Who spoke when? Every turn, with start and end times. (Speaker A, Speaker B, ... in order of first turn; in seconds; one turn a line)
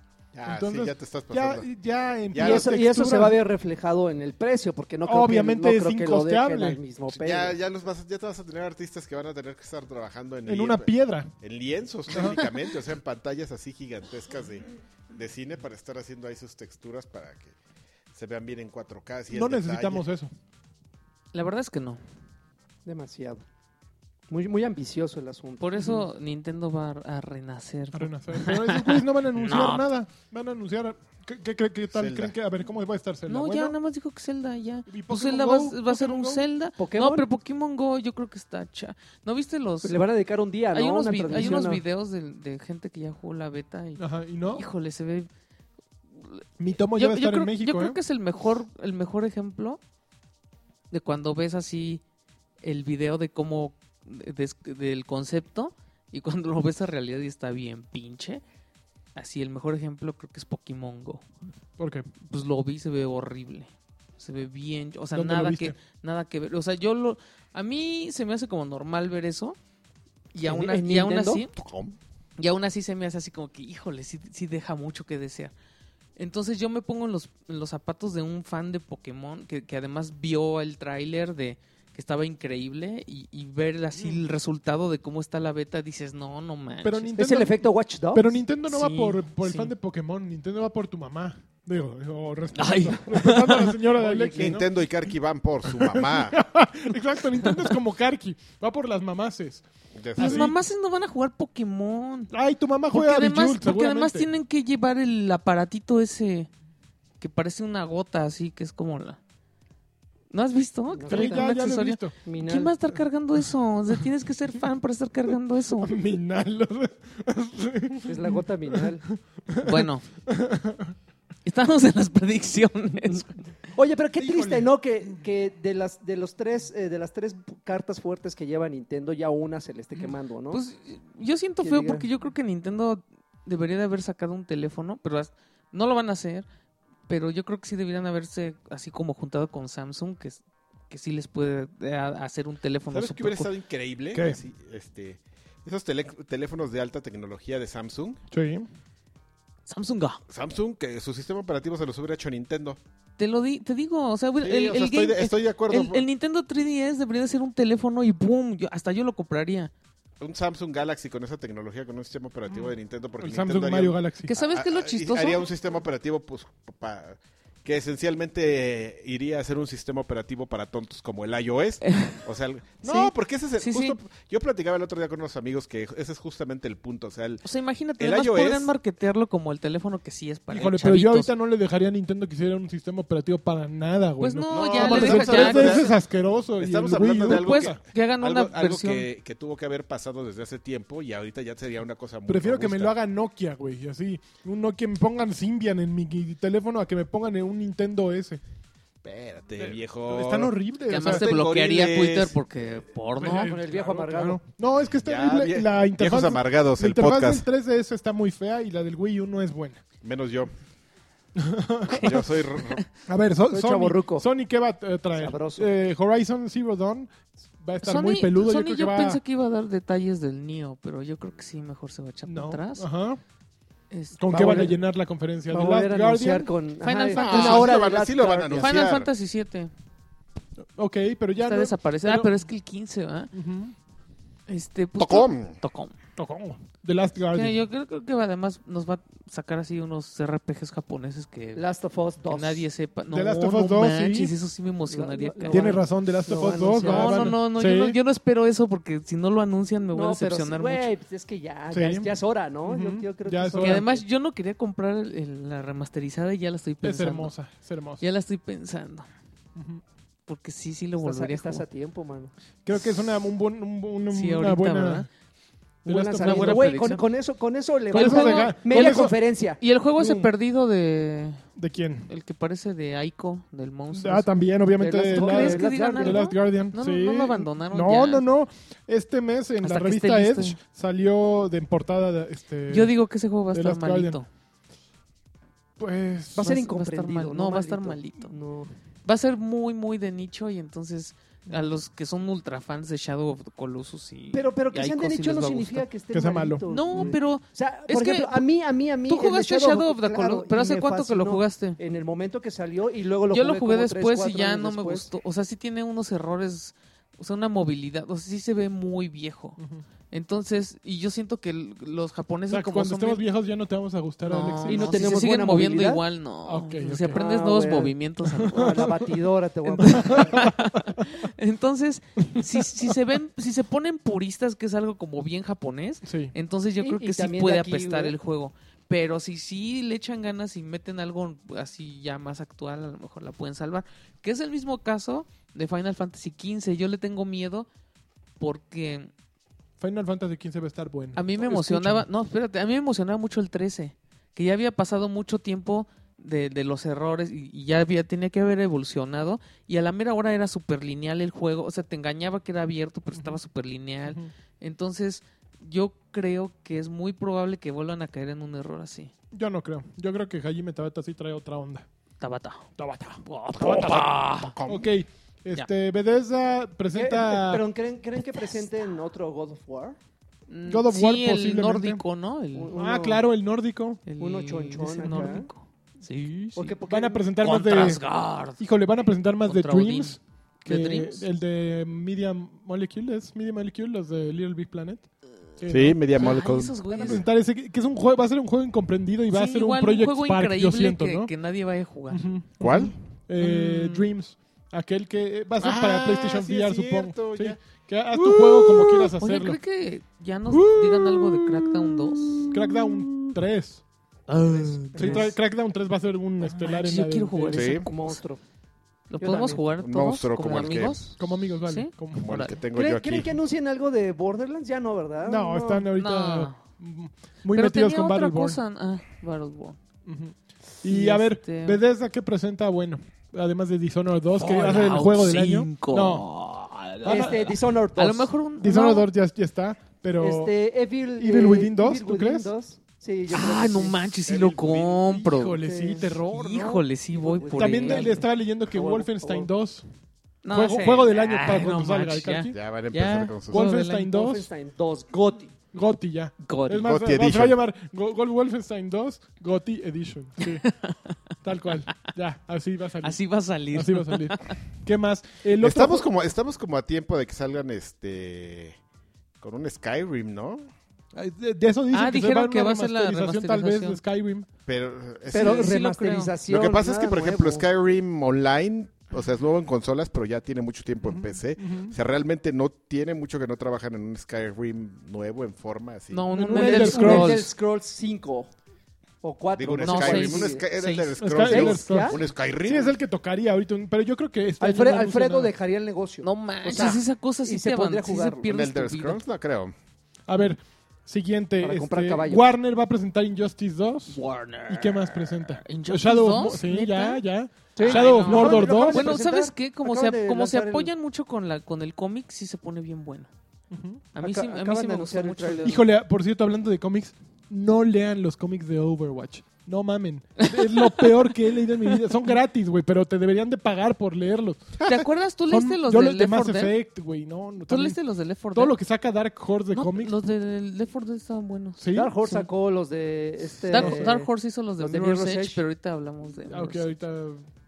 Speaker A: 0.3-1.6
Speaker B: 0.5-3.4
Speaker A: 2.3-2.7
Speaker C: 2.4-7.5
Speaker B: 5.0-6.8
Speaker A: 7.1-17.6
Speaker B: 10.5-11.3
Speaker B: 12.1-12.5
Speaker A: 18.1-20.0
Speaker B: 19.3-20.3
Speaker D: 21.3-22.0
Speaker C: 22.8-23.4
Speaker C: 24.3-25.9
Speaker D: 25.6-29.8
Speaker B: 27.9-33.7
Speaker A: 31.9-32.3
Speaker D: 33.3-40.0
Speaker B: 34.9-36.4
Speaker C: 36.8-37.2
Speaker C: 39.8-41.8
Speaker D: 40.7-45.3
Speaker B: 41.3-41.6
Speaker B: 44.0-44.6
Speaker D: 46.2-46.4
Speaker B: 46.6-48.0
Speaker D: 47.0-49.8
Speaker D: 50.9-52.0
Speaker D: 52.6-58.4
Speaker D: 59.1-61.2
Speaker B: 61.8-62.1
Speaker D: 62.2-69.6
Speaker B: 65.1-65.7
Speaker D: 70.3-71.5
Speaker C: 70.4-71.5
Speaker A: 71.5-72.0
Speaker D: 72.4-75.5
Speaker D: 76.2-87.1
Speaker B: 86.8-87.6
Speaker C: 87.1-88.3
Speaker B: 88.1-94.7
Speaker D: 88.7-89.7
Speaker D: 92.5-94.3
Speaker C: 94.1-94.4
Speaker A: 94.3-96.4
Speaker B: 95.6-99.6
Speaker D: 97.4-97.7
Speaker A: 99.9-100.5
Speaker B: 100.2-100.5
Speaker D: 100.2-102.3
Speaker B: 102.3-104.3
Speaker D: 102.9-106.5
Speaker D: 107.2-109.2
Speaker D: 110.3-116.0
Speaker C: 110.9-111.5
Speaker B: 111.1-112.2
Speaker C: 112.2-112.7
Speaker B: 115.8-120.9
Speaker C: 118.1-119.0
Speaker D: 119.6-120.0
Speaker D: 121.4-123.5
Speaker C: 123.7-130.6
Speaker B: 124.2-125.2
Speaker D: 130.5-136.5
Speaker C: 131.6-132.1
Speaker D: 137.1-143.5
Speaker A: 142.9-148.2
Speaker B: 144.1-144.4
Speaker B: 148.3-148.7
Speaker D: 149.7-150.2
Speaker A: 150.3-152.8
Speaker D: 153.2-159.7
Speaker A: 154.4-156.0
Speaker A: 160.2-177.4
Speaker B: 163.2-164.3
Speaker D: 164.2-165.4
Speaker D: 171.8-172.2
Speaker D: 172.8-174.0
Speaker D: 177.4-181.3
Speaker A: 178.0-178.7
Speaker B: 180.5-187.8
Speaker D: 184.2-185.9
Speaker A: 184.5-185.9
Speaker A: 186.6-192.9
Speaker D: 187.3-189.1
Speaker B: 192.3-198.4
Speaker A: 199.0-202.4
Speaker B: 199.6-201.3
Speaker D: 200.9-203.6
Speaker B: 203.2-209.8
Speaker C: 203.3-204.4
Speaker A: 204.8-207.4
Speaker A: 210.0-210.5
Speaker B: 211.3-212.2
Speaker D: 211.9-212.8
Speaker A: 212.0-212.8
Speaker B: 213.1-219.2
Speaker C: 213.5-214.2
Speaker C: 215.1-215.7
Speaker D: 217.8-222.8
Speaker B: 222.2-223.2
Speaker D: 223.9-224.6
Speaker B: 224.2-226.5
Speaker C: 224.3-224.8
Speaker C: 225.5-228.8
Speaker D: 226.8-227.8
Speaker A: 227.2-229.1
Speaker D: 228.6-229.7
Speaker B: 230.7-232.3
Speaker D: 231.4-233.3
Speaker B: 233.3-233.7
Speaker D: 234.5-235.9
Speaker A: 235.0-235.6
Speaker B: 236.2-237.6
Speaker D: 237.3-241.6
Speaker C: 241.5-242.6
Speaker D: 242.3-245.8
Speaker B: 243.1-244.3
Speaker C: 244.9-247.3
Speaker B: 245.5-248.0
Speaker D: 246.8-250.9
Speaker C: 249.9-254.0
Speaker B: 251.7-253.9
Speaker D: 253.6-257.3
Speaker B: 256.8-258.0
Speaker D: 258.0-259.1
Speaker B: 259.6-259.8
Speaker D: 260.3-261.6
Speaker C: 261.0-262.3
Speaker B: 262.6-265.1
Speaker D: 264.1-265.1
Speaker B: 265.8-266.9
Speaker C: 265.8-269.6
Speaker D: 266.2-267.0
Speaker B: 267.9-269.1
Speaker D: 267.9-271.4
Speaker B: 270.0-270.3
Speaker B: 271.6-272.1
Speaker D: 272.1-274.3
Speaker B: 273.9-282.9
Speaker C: 274.8-276.2
Speaker D: 275.1-278.2
Speaker D: 279.6-280.6
Speaker D: 282.7-284.2
Speaker B: 283.5-284.2
Speaker B: 285.8-286.5
Speaker C: 286.3-288.7
Speaker D: 286.4-288.3
Speaker D: 289.0-295.9
Speaker C: 294.3-305.1
Speaker B: 296.1-297.2
Speaker D: 296.7-298.4
Speaker D: 299.1-301.8
Speaker D: 303.3-309.6
Speaker B: 309.6-309.8
Speaker D: 310.1-313.2
Speaker B: 312.5-315.2
Speaker D: 314.2-318.9
Speaker C: 314.7-316.0
Speaker B: 316.4-317.2
Speaker C: 317.1-317.9
Speaker B: 318.3-319.1
Speaker C: 318.5-320.5
Speaker D: 319.7-337.7
Speaker B: 319.8-321.1
Speaker B: 322.3-322.6
Speaker B: 326.0-326.3
Speaker C: 326.8-328.1
Speaker D: 338.4-339.1
Speaker B: 339.8-342.1
Speaker D: 341.1-359.1
Speaker B: 353.1-353.4
Speaker B: 354.1-354.3
Speaker B: 359.3-361.9
Speaker D: 362.2-362.7
Speaker B: 362.8-364.1
Speaker D: 363.2-364.6
Speaker A: 364.5-364.9
Speaker B: 364.6-367.6
Speaker C: 366.9-370.0
Speaker D: 370.5-372.7
Speaker B: 370.7-372.0
Speaker C: 372.5-373.2
Speaker B: 372.7-374.0
Speaker D: 374.1-376.8
Speaker C: 374.2-375.5
Speaker B: 375.0-375.3
Speaker C: 376.6-377.3
Speaker B: 376.9-378.0
Speaker D: 377.4-378.6
Speaker B: 378.6-385.1
Speaker D: 379.5-381.2
Speaker B: 385.6-391.3
Speaker A: 385.7-387.2
Speaker D: 386.1-387.2
Speaker D: 389.3-392.2
Speaker B: 392.1-399.6
Speaker A: 392.6-392.9
Speaker D: 393.4-394.1
Speaker A: 395.6-397.6
Speaker D: 398.1-402.5
Speaker B: 400.5-403.8
Speaker D: 404.3-405.3
Speaker C: 404.5-405.3
Speaker B: 404.9-407.7
Speaker D: 406.4-408.2
Speaker A: 407.5-407.9
Speaker C: 407.8-408.4
Speaker D: 409.1-412.6
Speaker C: 409.2-409.6
Speaker A: 409.8-411.1
Speaker B: 411.2-412.4
Speaker A: 412.1-413.4
Speaker C: 412.7-415.9
Speaker B: 415.2-418.6
Speaker D: 416.0-416.6
Speaker D: 417.5-419.8
Speaker B: 420.1-426.3
Speaker D: 420.9-421.8
Speaker D: 424.4-429.1
Speaker B: 427.0-427.6
Speaker C: 427.0-428.3
Speaker B: 428.6-430.5
Speaker C: 430.2-434.0
Speaker B: 431.2-432.5
Speaker D: 433.3-438.2
Speaker A: 434.2-435.1
Speaker B: 435.1-436.8
Speaker C: 435.6-436.1
Speaker C: 437.1-439.5
Speaker B: 437.5-439.8
Speaker D: 440.4-444.1
Speaker B: 440.5-442.6
Speaker A: 442.5-443.6
Speaker B: 443.5-444.5
Speaker C: 443.8-445.6
Speaker B: 445.7-450.7
Speaker D: 446.4-446.9
Speaker A: 446.8-447.6
Speaker D: 450.4-451.2
Speaker B: 451.4-456.1
Speaker D: 453.0-454.6
Speaker A: 455.6-458.8
Speaker A: 459.4-460.7
Speaker B: 461.1-464.5
Speaker D: 461.9-464.0
Speaker A: 464.7-465.7
Speaker C: 465.3-467.6
Speaker D: 465.3-466.3
Speaker A: 466.5-476.2
Speaker B: 471.0-471.9
Speaker D: 476.1-477.5
Speaker B: 476.3-477.5
Speaker C: 476.5-478.5
Speaker C: 479.2-480.6
Speaker A: 479.6-482.9
Speaker D: 479.8-481.1
Speaker B: 481.2-485.5
Speaker C: 481.4-482.2
Speaker C: 484.6-488.5
Speaker D: 486.2-489.2
Speaker A: 488.4-489.7
Speaker B: 490.3-499.2
Speaker C: 491.6-492.4
Speaker D: 494.1-497.2
Speaker C: 497.8-500.9
Speaker D: 497.8-503.3
Speaker B: 503.7-504.0
Speaker D: 504.1-505.8
Speaker C: 504.2-505.7
Speaker B: 505.6-514.7
Speaker D: 510.4-512.0
Speaker A: 514.8-515.0
Speaker D: 514.9-516.7
Speaker B: 515.5-518.0
Speaker D: 517.7-518.8
Speaker B: 518.5-520.2
Speaker D: 519.7-522.5
Speaker B: 521.8-522.1
Speaker C: 521.9-525.6
Speaker D: 523.7-526.9
Speaker B: 523.7-524.0
Speaker B: 526.5-527.5